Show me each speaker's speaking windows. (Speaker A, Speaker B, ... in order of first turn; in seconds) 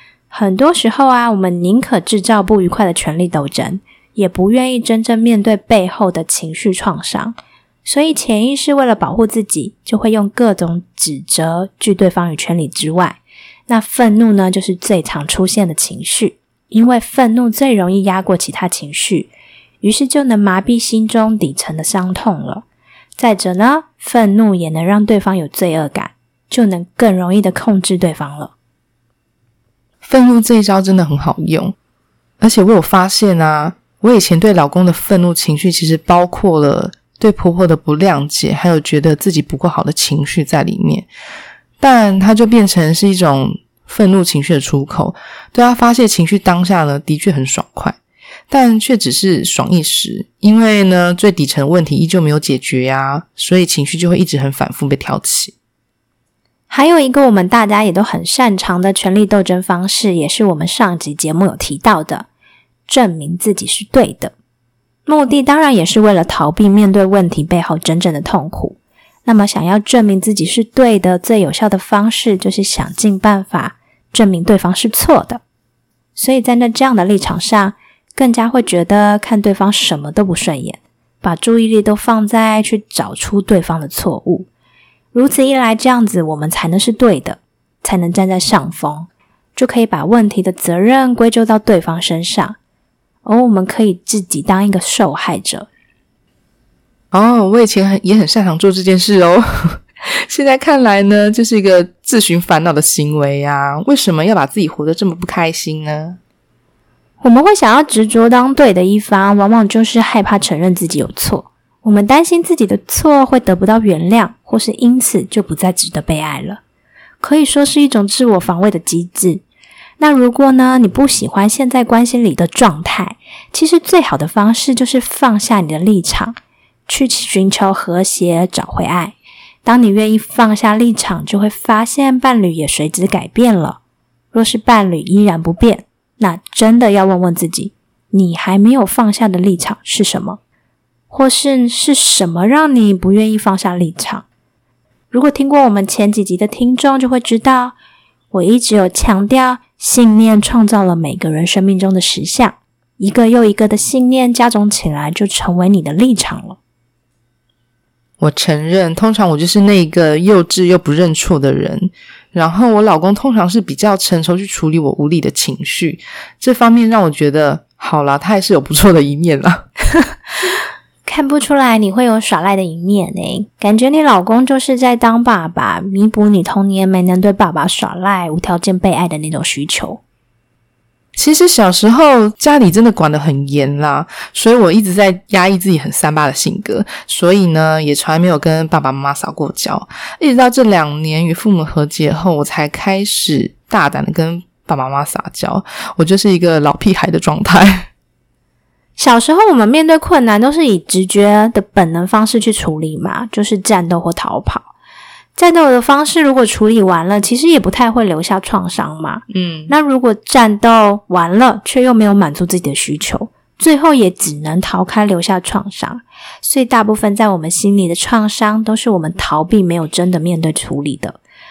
Speaker A: 0.3-22.6, 23.2-28.5, 56.7-62.3, 62.9-64.3, 65.1-75.4, 76.2-84.5, 85.1-92.6, 93.2-95.7, 107.2-116.6, 117.2-119.4, 120.0-126.4, 126.9-133.8, 134.3-140.4, 141.1-144.3, 145.1-147.8, 148.3-156.6, 171.1-180.0, 199.0-204.7, 205.4-221.2
Speaker B: 30.0-31.8, 32.4-41.1, 41.8-48.0, 48.5-55.5, 97.1-106.2, 158.2-169.7, 181.2-197.9, 209.3-209.7